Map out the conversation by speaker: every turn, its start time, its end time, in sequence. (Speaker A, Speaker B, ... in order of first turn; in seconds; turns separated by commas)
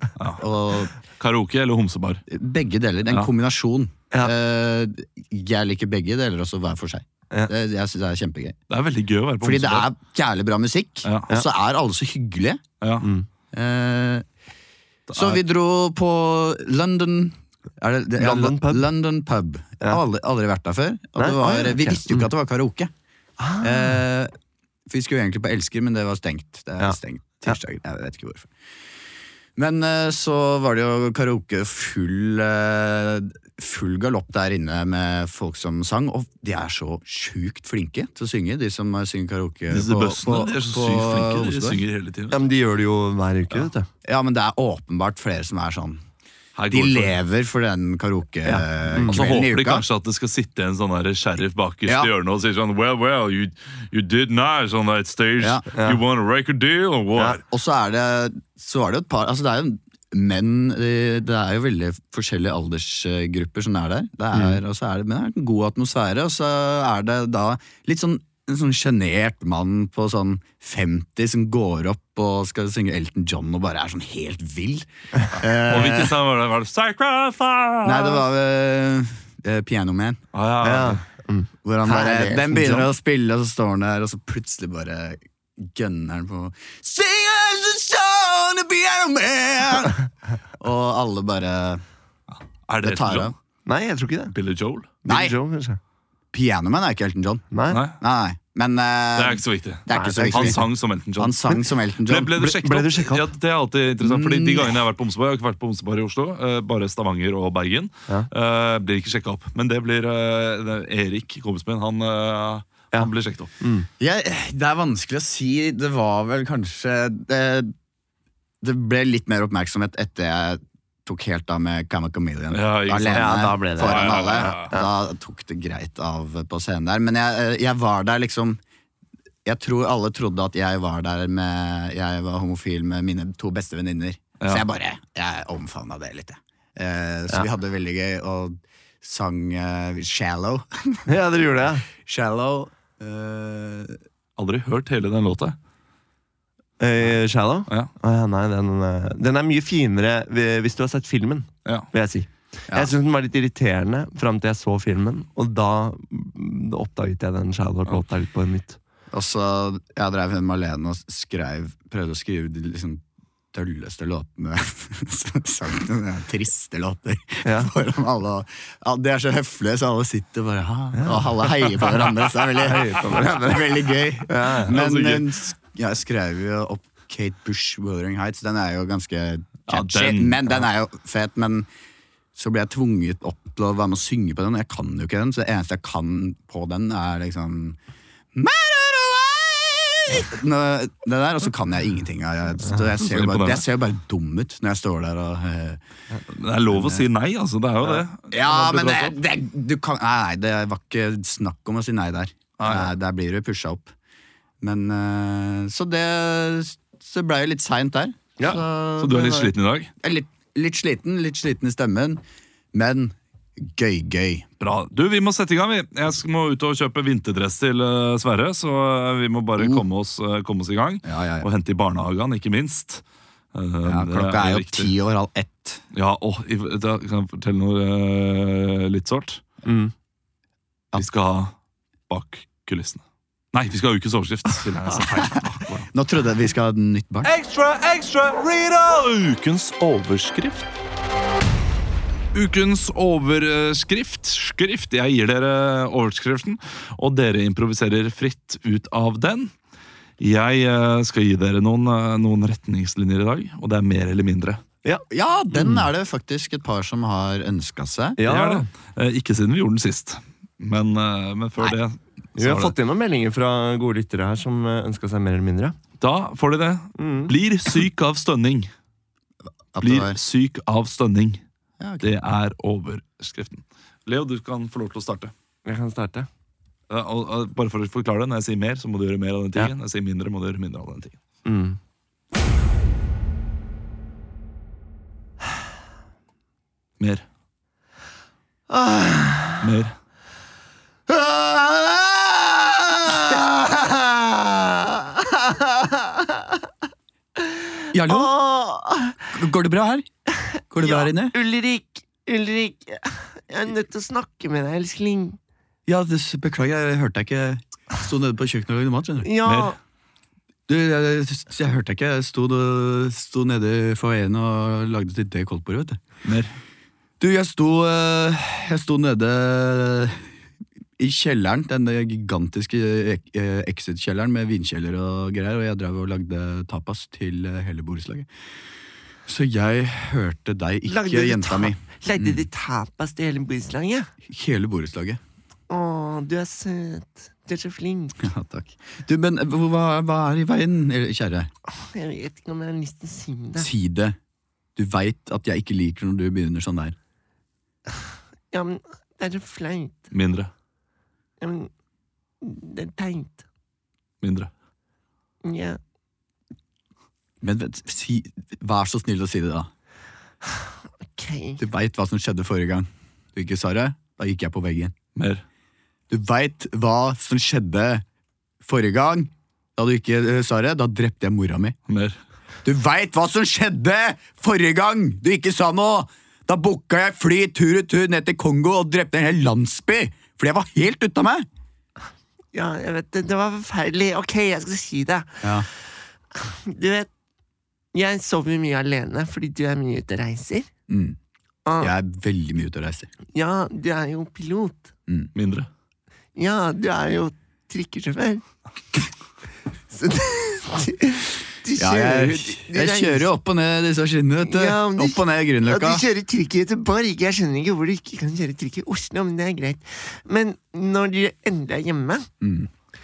Speaker A: 0.2-0.4, Speaker B: 0.4-0.9, Speaker A: 1.2-2.2, Speaker B: 2.3-8.6, Speaker A: 8.7-9.9, Speaker B: 9.4-12.6, Speaker A: 12.8-13.1, Speaker C: 13.0-13.3, Speaker B: 13.5-14.2, Speaker A: 15.1-15.4, Speaker B: 15.1-22.9, Speaker C: 18.2-18.8, Speaker C: 21.2-22.3, Speaker C: 23.4-24.0, Speaker B: 23.6-24.3, Speaker B: 24.9-28.5, Speaker C: 26.8-27.6, Speaker B: 29.6-41.8, Speaker A: 39.7-42.4, Speaker C: 42.3-43.9, Speaker B: 44.0-46.0, Speaker A: 46.5-47.1, Speaker B: 46.7-49.8, Speaker C: 48.4-49.2, Speaker A: 49.0-57.4, Speaker C: 55.7-56.0, Speaker B: 57.4-76.1, Speaker A: 75.6-78.2, Speaker B: 77.8-80.2, Speaker A: 80.3-81.0, Speaker C: 80.6-82.9, Speaker B: 81.6-90.0, Speaker B: 90.6-91.8, Speaker A: 92.3-93.3, Speaker B: 92.8-93.3, Speaker C: 93.7-94.3, Speaker A: 94.3-94.9, Speaker C: 95.0-95.8, Speaker B: 95.0-95.3, Speaker B: 96.3-97.5, Speaker C: 97.5-97.8, Speaker A: 97.7-98.0, Speaker B: 98.0-102.3, Speaker A: 99.2-113.5, Speaker C: 99.9-100.6, Speaker C: 102.3-103.3, Speaker B: 104.0-104.8, Speaker C: 112.9-113.9, Speaker B: 114.0-117.7, Speaker B: 118.6-128.6, Speaker A: 122.5-124.7, Speaker C: 123.1-124.9, Speaker B: 129.4-141.1, Speaker C: 141.1-141.8, Speaker B: 141.9-144.0, Speaker A: 144.4-145.6, Speaker C: 146.8-158.8, Speaker B: 159.1-163.0, Speaker B: 163.5-181.7, Speaker C: 167.4-167.7, Speaker C: 170.9-171.9, Speaker C: 172.6-174.7, Speaker A: 174.6-175.3, Speaker A: 179.7-180.4, Speaker B: 182.3-187.8, Speaker B: 188.3-195.8, Speaker A: 193.0-193.6, Speaker A: 196.3-199.2, Speaker B: 196.7-197.0, Speaker B: 197.9-203.9, Speaker A: 202.6-202.9, Speaker B: 204.6-209.5, Speaker A: 209.0-209.9, Speaker B: 210.0-212.2, Speaker B: 212.7-214.4, Speaker A: 214.6-223.0, Speaker B: 219.6-219.8, Speaker B: 221.0-221.5, Speaker A: 223.5-224.9, Speaker B: 223.8-225.8, Speaker A: 225.9-229.4, Speaker C: 229.6-229.9, Speaker A: 230.9-231.5, Speaker A: 232.1-233.0, Speaker A: 233.5-235.9, Speaker B: 235.9-237.3, Speaker A: 237.2-240.7, Speaker A: 242.3-249.5, Speaker A: 250.2-254.6, Speaker C: 254.8-255.8, Speaker B: 255.1-258.2, Speaker C: 258.2-258.7, Speaker A: 258.2-262.7, Speaker C: 262.4-265.8, Speaker A: 266.0-268.7, Speaker C: 267.0-267.3, Speaker B: 269.7-270.2, Speaker A: 269.8-271.4, Speaker B: 271.8-272.1, Speaker A: 272.0-275.3, Speaker C: 275.6-276.3, Speaker A: 276.9-281.2, Speaker C: 281.4-281.8, Speaker A: 287.0-287.2, Speaker C: 288.7-289.6, Speaker A: 289.6-289.9, Speaker C: 291.1-292.1, Speaker C: 293.1-296.5, Speaker C: 297.4-299.3, Speaker B: 297.9-298.3, Speaker B: 299.3-300.1, Speaker C: 300.3-305.4, Speaker B: 300.7-301.3, Speaker B: 305.9-309.3, Speaker C: 309.2-309.8, Speaker A: 309.4-309.7, Speaker B: 310.7-316.0, Speaker A: 316.2-316.5, Speaker B: 317.2-320.3, Speaker B: 321.0-328.3, Speaker B: 329.2-332.4, Speaker C: 330.9-334.1, Speaker B: 334.2-335.2, Speaker C: 335.7-338.3, Speaker B: 338.2-341.5, Speaker C: 341.7-343.7, Speaker B: 343.6-344.1, Speaker B: 344.8-346.9, Speaker C: 348.5-350.1, Speaker A: 350.1-350.5, Speaker C: 351.4-351.7, Speaker C: 352.4-353.4, Speaker A: 354.2-354.5, Speaker C: 355.4-355.8, Speaker B: 357.4-359.7, Speaker C: 361.1-361.6, Speaker B: 361.6-364.9, Speaker A: 365.1-365.4, Speaker B: 366.1-368.0, Speaker B: 368.6-371.8, Speaker A: 371.9-372.2, Speaker B: 372.6-381.4, Speaker C: 382.5-385.5, Speaker B: 385.4-385.7, Speaker C: 386.3-387.1, Speaker C: 387.9-390.7, Speaker B: 390.9-391.2, Speaker C: 391.6-391.9, Speaker B: 391.8-393.1, Speaker C: 393.3-394.9, Speaker A: 395.3-395.7, Speaker C: 396.4-398.4, Speaker C: 399.9-403.3, Speaker B: 401.8-406.0, Speaker C: 404.4-412.3, Speaker B: 412.4-412.7